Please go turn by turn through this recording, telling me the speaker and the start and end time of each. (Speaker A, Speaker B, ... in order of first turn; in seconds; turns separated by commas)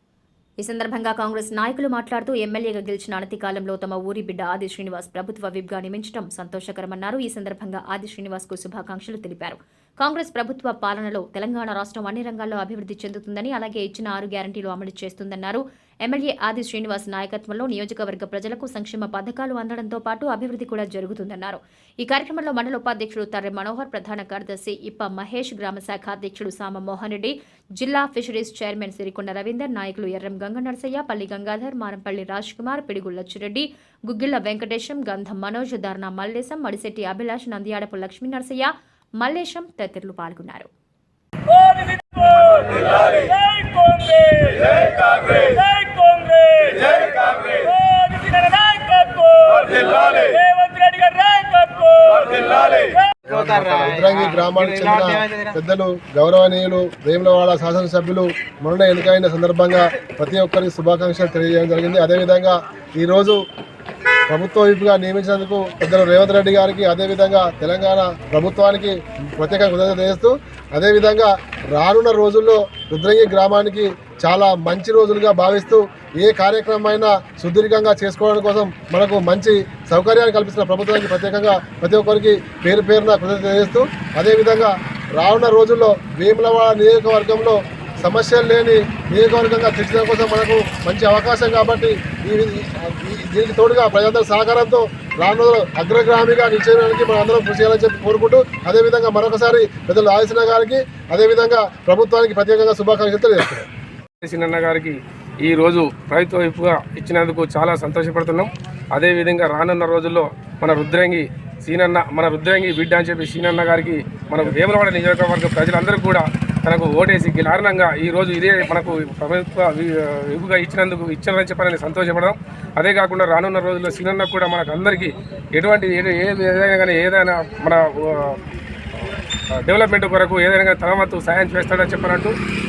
Speaker A: 0.6-40.7, Speaker B: 44.5-45.5, Speaker B: 46.1-53.9, Speaker C: 53.3-63.4, Speaker B: 54.5-55.3, Speaker C: 64.3-103.7, Speaker D: 104.2-128.4, Speaker D: 129.6-132.3